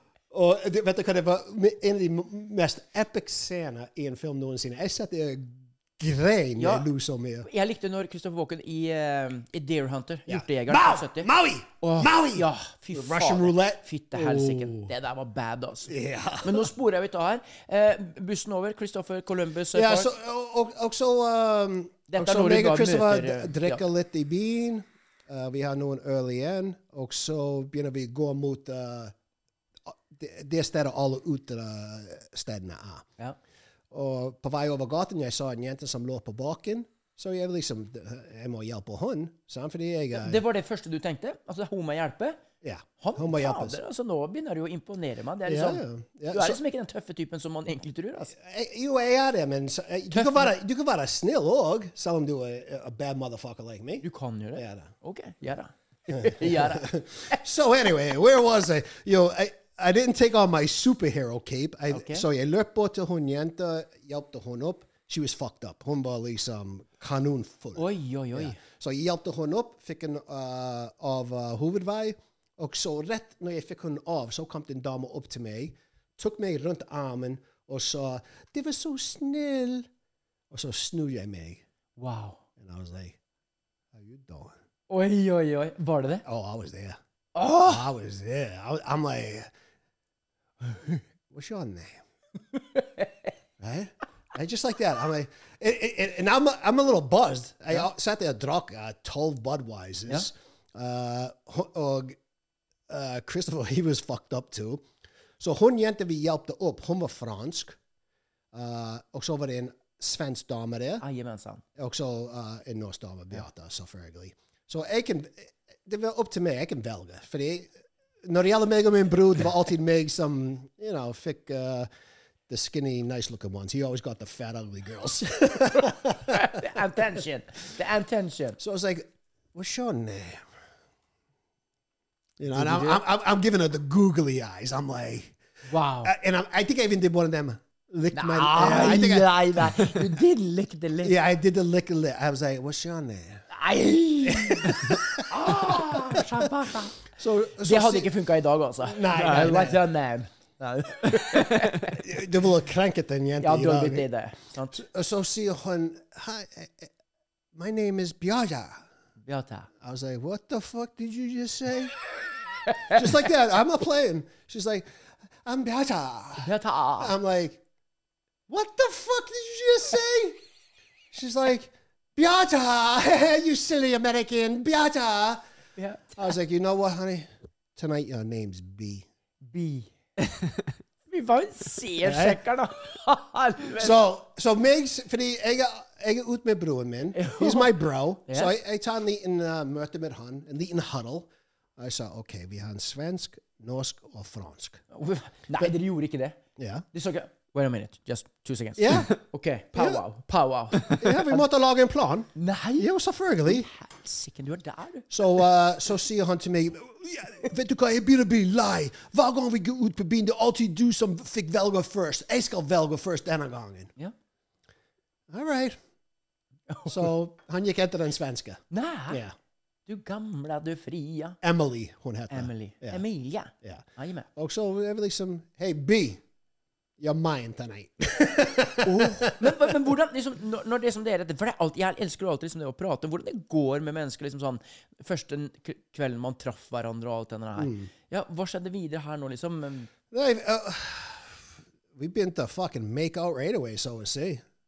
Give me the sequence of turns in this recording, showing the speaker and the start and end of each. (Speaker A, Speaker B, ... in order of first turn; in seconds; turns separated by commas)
Speaker A: 0.3-7.5, Speaker B: 6.6-6.9, Speaker B: 7.4-11.3, Speaker A: 10.3-14.9, Speaker B: 11.8-15.9, Speaker A: 15.9-16.7, Speaker B: 16.4-20.1, Speaker A: 19.7-29.1, Speaker B: 22.1-23.8, Speaker A: 29.9-33.1, Speaker A: 33.9-40.4, Speaker B: 40.1-42.4, Speaker A: 42.6-43.8, Speaker B: 43.0-48.3, Speaker A: 45.5-46.6, Speaker A: 48.3-54.0, Speaker B: 50.1-50.5, Speaker B: 54.0-57.4, Speaker A: 54.6-54.9, Speaker A: 56.1-79.9, Speaker B: 61.9-62.3, Speaker B: 67.8-68.6, Speaker A: 80.5-81.6, Speaker B: 82.0-82.4, Speaker A: 82.6-83.2, Speaker A: 83.9-84.5, Speaker B: 84.9-86.2, Speaker A: 86.2-87.0, Speaker B: 87.3-87.9, Speaker A: 87.6-89.5, Speaker A: 90.6-92.0, Speaker B: 92.5-93.3, Speaker A: 93.6-102.2, Speaker A: 102.9-104.8, Speaker A: 105.4-107.8, Speaker A: 108.5-111.0, Speaker B: 111.0-111.6, Speaker A: 111.8-117.7, Speaker A: 118.2-121.9, Speaker A: 122.5-126.6, Speaker B: 125.8-128.6, Speaker A: 128.6-130.4, Speaker A: 132.4-135.3, Speaker B: 132.5-133.0, Speaker B: 135.7-136.1, Speaker A: 136.0-139.8, Speaker B: 138.1-141.2, Speaker A: 141.0-143.4, Speaker B: 143.5-147.0, Speaker A: 144.2-146.4, Speaker A: 147.1-148.1, Speaker B: 147.6-152.0, Speaker A: 148.8-149.8, Speaker A: 152.0-154.1, Speaker B: 153.4-154.8, Speaker A: 154.7-156.9, Speaker A: 157.5-158.8, Speaker B: 159.3-159.7, Speaker A: 159.8-162.0, Speaker B: 162.7-163.0, Speaker A: 162.9-164.9, Speaker A: 165.4-167.6, Speaker B: 166.4-167.1, Speaker A: 168.5-170.4, Speaker A: 171.1-175.4, Speaker B: 175.8-176.3, Speaker A: 176.2-179.1, Speaker B: 179.4-180.5, Speaker B: 181.1-184.0, Speaker A: 182.0-182.4, Speaker A: 183.8-194.8, Speaker B: 187.2-187.8, Speaker B: 188.3-188.5, Speaker B: 194.9-196.4, Speaker A: 196.6-196.8, Speaker B: 196.9-201.4, Speaker A: 198.8-199.1, Speaker A: 199.8-200.0, Speaker A: 200.9-203.7, Speaker B: 202.4-202.9, Speaker B: 203.4-205.1, Speaker A: 205.1-213.9, Speaker A: 215.3-215.8, Speaker B: 216.7-217.1, Speaker A: 216.9-219.3, Speaker B: 218.7-219.2, Speaker B: 219.9-221.4, Speaker A: 221.4-223.0, Speaker B: 222.3-224.3, Speaker A: 223.6-226.2, Speaker A: 227.0-229.7, Speaker B: 228.8-239.9, Speaker A: 237.6-237.9, Speaker A: 240.1-241.4, Speaker A: 241.9-244.4